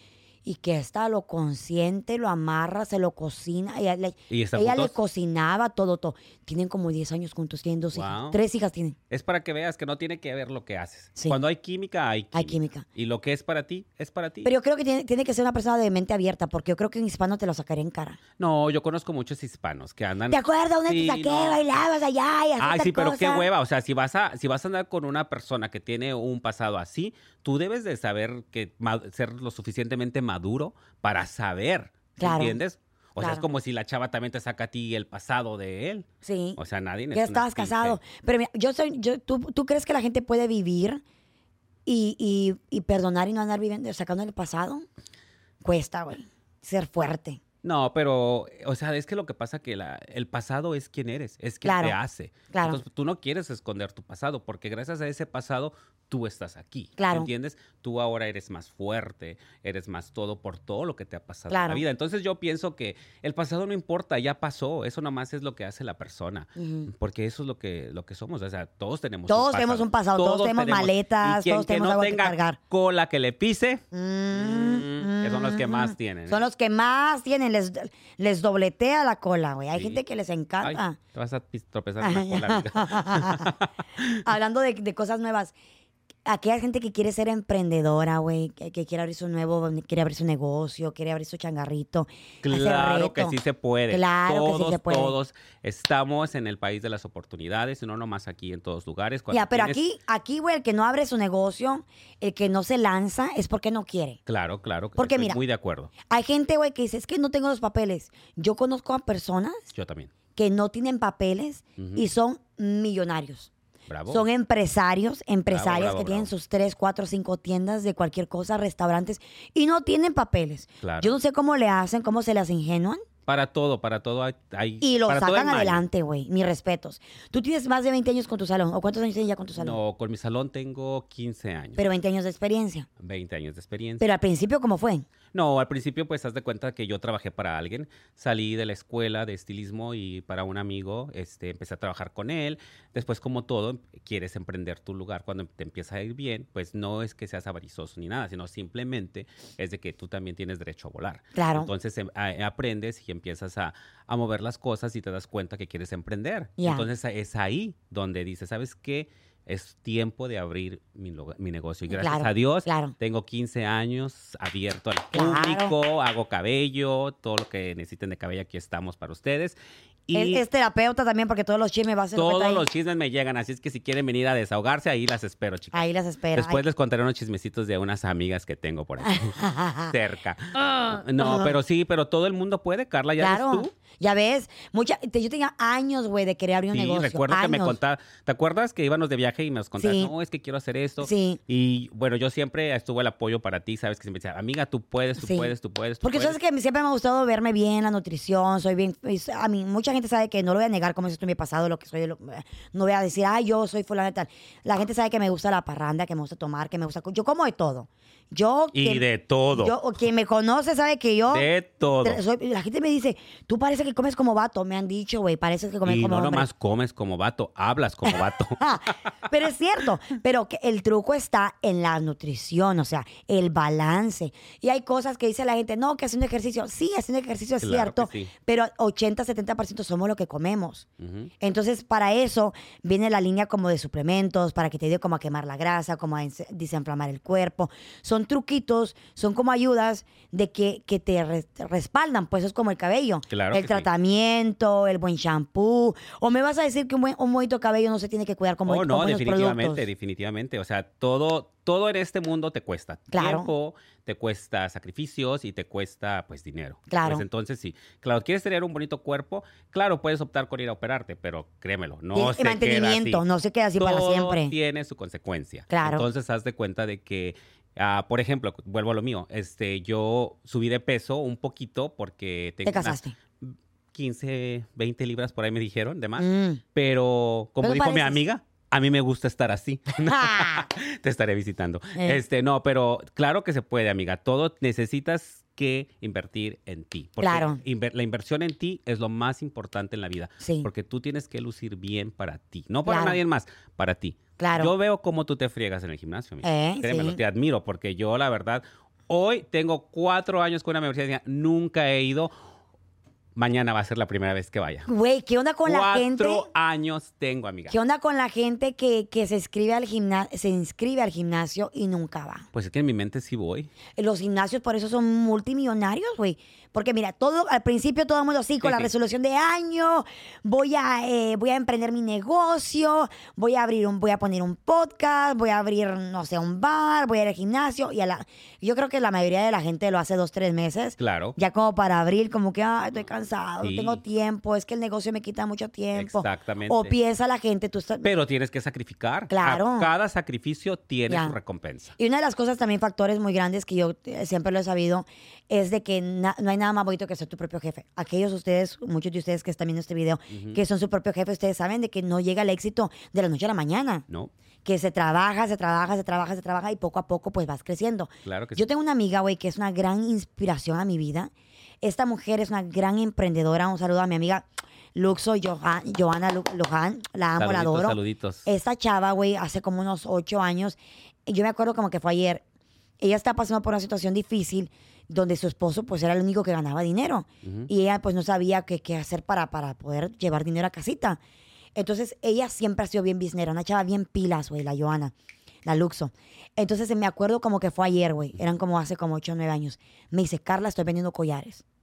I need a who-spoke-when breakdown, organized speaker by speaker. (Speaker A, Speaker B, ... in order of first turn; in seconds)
Speaker A: 0.4-9.0, 12.3-12.8, 14.4-18.2, 20.3-23.5, 32.2-32.6, 33.2-33.4, 36.2-36.6, 37.1-41.0, 41.9-44.9, 45.6-47.4, 51.6-52.0, 52.5-52.8, 57.0-57.3, 61.5-61.8, 66.6-66.9, 69.3-72.6, 73.9-81.0, 82.0-83.5, 84.1-85.5, 86.2-93.4, 93.9-95.1, 99.3-104.2, 105.0-105.4, 106.1-109.6, 110.3-113.5, 114.1-123.0, 124.8-129.8, 131.8-132.9, 134.0-135.1, 151.3-151.7, 156.6-156.8, 161.9-162.9, 165.1-165.7, 170.1-172.6, 175.7-176.6, 179.1-179.9, 180.7-181.5, 183.2-187.8, 189.8-190.1, 191.0-191.4, 195.2-195.5, 196.0-211.5, 212.0-216.4, 218.1-230.8, 231.4-249.8, 253.1-253.5, 256.9-257.2, 262.1-264.5, 265.7-266.1, 272.6-273.1, 276.2-276.6, 277.6-278.2, 280.1-280.7, 281.9-282.2, 287.2-287.6, 290.4-290.7, 292.9-293.2, 294.4-294.7, 296.4-297.2, 304.9-306.5, 307.7-312.5, 313.9-338.1, 339.3-339.9, 341.1-341.4, 342.0-354.0, 354.6-361.3, 361.8-372.4, 373.0-381.2, 381.8-385.1, 385.6-391.6
Speaker B: 4.3-4.9, 7.9-8.4, 9.1-14.5, 18.4-21.6, 22.6-38.0, 47.6-76.5, 79.7-80.0, 80.6-84.2, 92.4-99.8, 104.3-105.9, 109.7-110.1, 111.8-112.0, 113.9-114.2, 115.5-116.3, 120.8-121.1, 123.3-125.8, 129.6-131.8, 133.0-134.0, 135.3-169.6, 170.1-170.4, 172.2-183.7, 186.7-196.4, 208.7-209.8, 211.3-212.2, 215.8-218.9, 227.6-228.3, 231.0-231.3, 243.3-243.9, 248.7-263.2, 263.8-302.3, 303.3-304.9, 305.6-307.7, 312.5-313.7, 318.6-318.9, 331.0-331.4, 333.6-334.0, 335.9-336.9, 338.0-341.9, 350.3-350.6, 358.2-358.6, 367.4-368.5, 377.4-377.7